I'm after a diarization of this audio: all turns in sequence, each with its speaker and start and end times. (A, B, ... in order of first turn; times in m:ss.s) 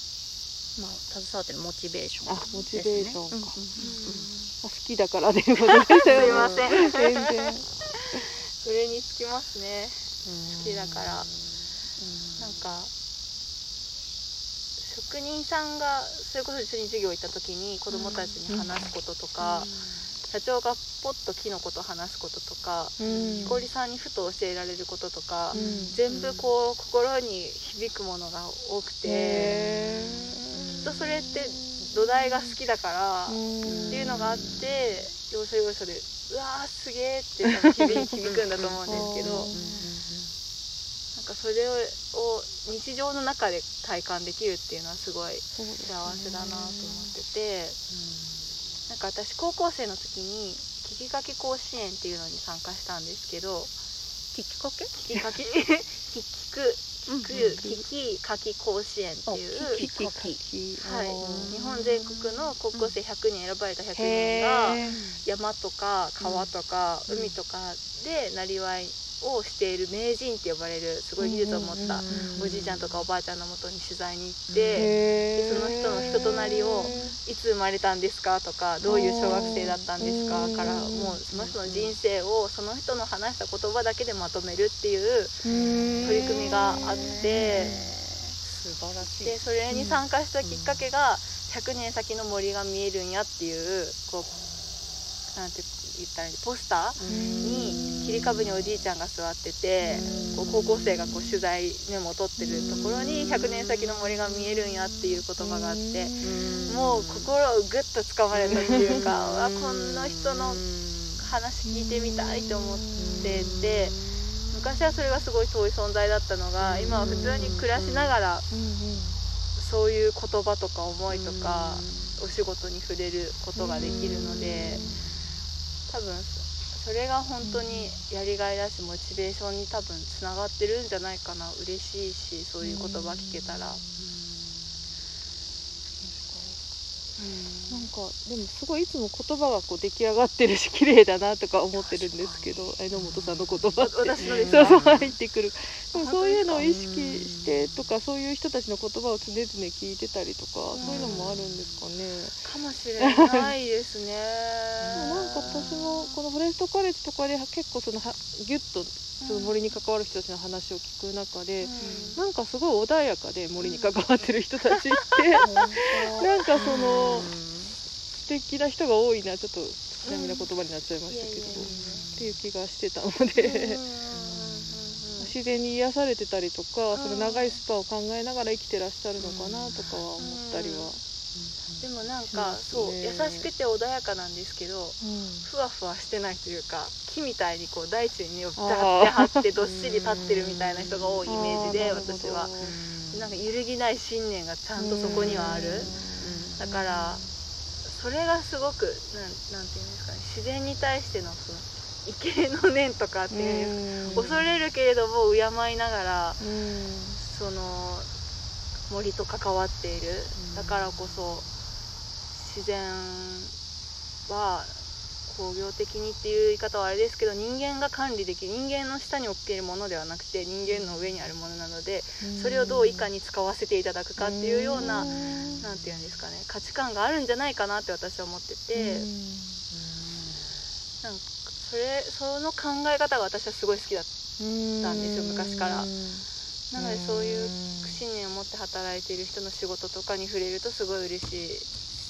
0:00.8-0:04.3 A
0:02.2-0:03.6 B
0:03.8-0:04.5 C
0:04.6-0:07.7 B
0:06.0-0:07.3 C
0:06.1-0:06.6 A
0:08.6-0:11.3 C
0:10.2-0:12.6 A
0:12.4-0:12.9 C
0:14.8-0:19.7 C
0:17.9-0:18.4 A
0:18.5-0:18.9 B
0:19.4-0:20.1 A
0:20.3-0:29.7 C
0:23.0-0:23.6 B
0:23.0-0:23.6 A
0:25.5-0:26.0 B
0:25.5-0:26.5 A
0:29.0-0:30.8 B
0:29.3-0:31.1 A
0:30.8-0:39.5 C
0:31.5-0:31.9 B
0:33.3-0:34.2 B
0:33.6-0:34.7 A
0:37.4-0:38.0 B
0:38.1-0:40.3 A
0:38.8-0:39.9 B
0:41.2-0:47.8 C
0:45.5-0:47.2 B
0:47.9-0:48.5 A
0:48.9-0:53.7 C
0:54.3-0:54.9 A
0:54.9-0:59.8 C
0:57.1-0:57.7 A
0:57.3-0:57.8 B
0:59.3-1:00.4 A
0:59.6-1:01.6 B
1:00.8-1:25.4 C
1:01.2-1:03.0 A
1:04.0-1:05.0 B
1:04.8-1:05.2 A
1:06.2-1:06.5 A
1:11.2-1:12.5 B
1:11.8-1:13.0 A
1:14.5-1:15.2 A
1:14.8-1:17.2 B
1:18.8-1:21.2 B
1:21.3-1:22.0 A
1:25.4-1:26.8 B
1:25.5-1:29.4 A
1:26.0-1:27.8 C
1:27.3-1:27.8 B
1:29.2-1:34.3 C
1:29.7-1:30.0 B
1:30.4-1:30.8 A
1:35.3-1:58.5 C
1:37.0-1:38.3 A
1:37.0-1:37.8 B
1:39.9-1:41.0 A
1:42.4-1:43.0 B
1:45.4-1:46.3 B
1:46.2-1:47.3 A
1:48.3-1:51.2 A
1:48.5-1:49.0 B
1:51.6-1:53.5 B
1:53.0-1:54.3 A
1:56.6-1:58.2 A
1:56.9-1:57.6 B
1:58.5-1:59.2 B
1:59.6-2:04.8 C
2:01.1-2:02.2 A
2:03.6-2:05.0 B
2:05.9-2:13.8 C
2:07.4-2:08.0 B
2:12.6-2:14.1 B
2:14.0-2:14.3 A
2:16.0-2:16.6 B
2:17.2-2:17.9 C
2:17.7-2:32.4 B
2:22.0-2:22.3 C
2:22.1-2:23.7 A
2:23.8-2:25.2 C
2:24.2-2:25.1 A
2:25.9-2:26.8 C
2:26.6-2:27.7 A
2:30.7-2:31.4 C
2:30.8-2:31.8 A
2:32.4-2:36.2 C
2:33.0-2:33.5 B
2:34.8-2:35.8 A
2:34.9-2:47.3 B
2:39.2-2:39.7 C
2:41.6-2:42.2 C
2:43.6-2:44.0 C
2:45.4-2:46.6 C
2:45.4-2:45.7 A
2:46.6-2:47.8 A
2:48.2-2:53.8 B
2:50.0-2:50.5 C
2:51.1-2:52.1 C
2:51.5-2:52.3 A
2:53.4-2:55.4 C
2:54.1-2:54.9 A
2:55.2-3:01.0 B
2:56.9-2:57.6 C
2:59.3-3:00.9 C
3:01.4-3:01.8 A
3:01.8-3:12.6 C
3:02.2-3:03.5 B
3:05.0-3:05.5 B
3:08.6-3:09.5 B
3:10.5-3:11.2 A
3:11.2-3:12.8 B
3:12.6-3:13.4 A
3:13.1-3:16.0 C
3:14.8-3:16.4 B
3:15.0-3:15.5 A
3:16.2-3:16.9 A
3:16.6-3:17.3 C
3:17.8-3:26.4 C
3:23.3-3:24.3 B
3:24.0-3:24.5 A
3:26.4-3:27.2 B
3:27.2-3:28.1 C
3:28.9-3:31.5 C
3:30.4-3:31.0 A
3:32.3-3:33.6 C
3:34.3-3:49.1 C
3:40.7-3:41.2 A
3:42.2-3:43.1 B
3:44.2-3:45.6 B
3:48.7-3:49.6 B
3:51.0-3:54.1 C
3:54.4-3:58.0 B
3:54.8-3:55.9 C
3:56.7-4:01.7 C